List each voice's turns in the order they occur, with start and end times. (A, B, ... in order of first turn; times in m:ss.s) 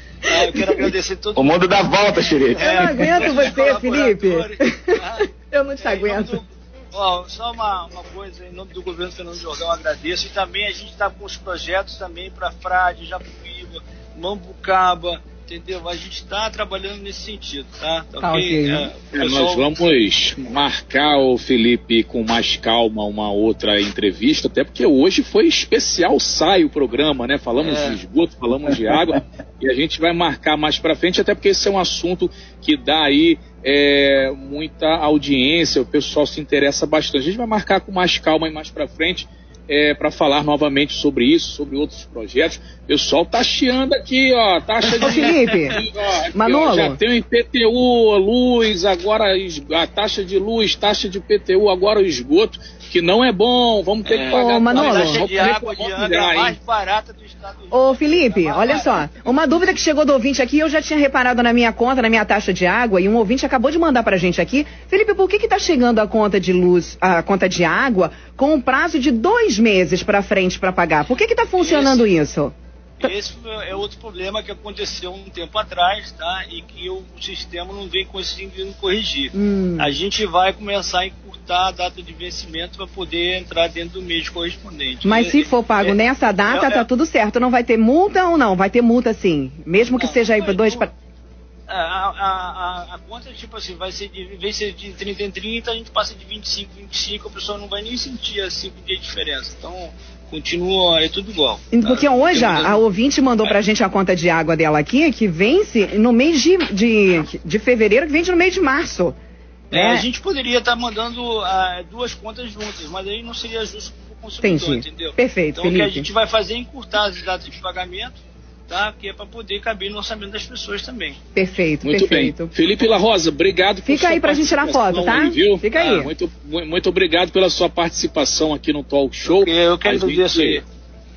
0:00.2-0:01.6 A
0:01.4-0:03.3 B
0:02.6-0:19.6 A
0:02.6-0:06.4 C
0:18.2-0:18.9 C
0:19.1-0:56.6 D
0:27.7-0:28.0 A
0:45.0-0:45.3 A
0:45.0-0:45.8 C
0:46.4-0:47.0 C
0:54.1-0:59.0 A
0:54.3-0:55.2 C
0:57.7-1:13.1 C
1:11.6-1:12.1 A
1:13.0-1:26.9 A
1:19.3-1:19.9 C
1:25.0-1:30.9 C
1:29.9-1:30.9 A
1:31.7-1:42.8 A
1:41.7-1:49.2 C
1:49.7-2:01.2 A
1:49.7-1:50.0 C
1:54.4-1:56.1 C
2:01.4-2:02.5 C
2:01.8-2:10.6 D
2:03.8-2:06.1 C
2:09.3-2:10.6 A